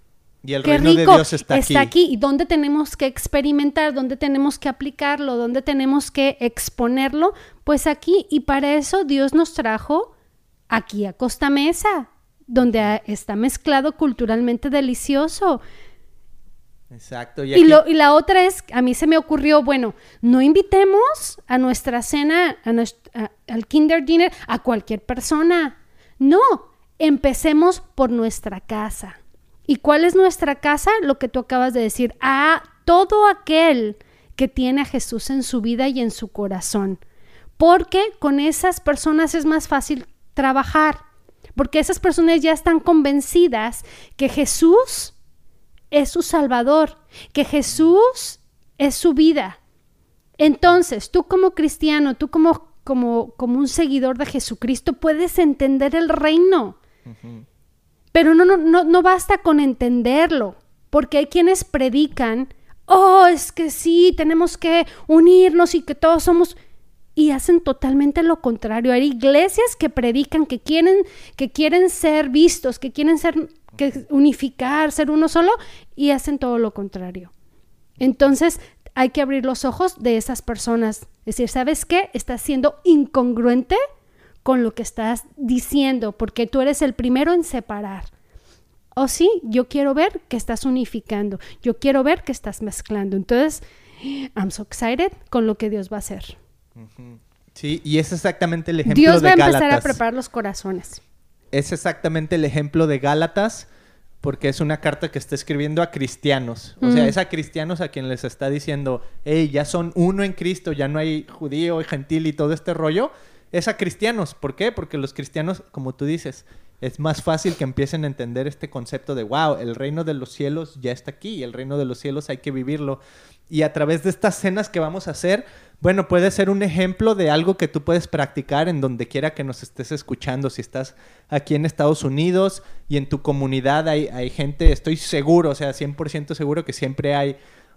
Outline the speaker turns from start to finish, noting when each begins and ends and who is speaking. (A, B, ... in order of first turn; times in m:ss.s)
0:00.4-0:01.9 A
0:00.6-0:10.1 B
0:10.7-0:15.6 B
0:12.6-0:12.9 A
0:16.9-0:17.8 A
0:17.5-0:37.0 B
0:37.6-0:41.0 B
0:41.6-0:45.1 B
0:45.9-0:49.6 B
0:50.4-0:56.8 B
0:57.1-0:57.5 A
0:58.1-1:06.6 B
1:07.2-1:17.3 B
1:18.0-1:18.3 A
1:18.0-1:23.8 B
1:24.4-1:28.1 B
1:29.0-1:36.4 B
1:36.8-1:40.0 A
1:38.9-1:41.0 B
1:41.5-1:43.7 A
1:44.2-2:17.4 A
1:46.8-1:47.2 B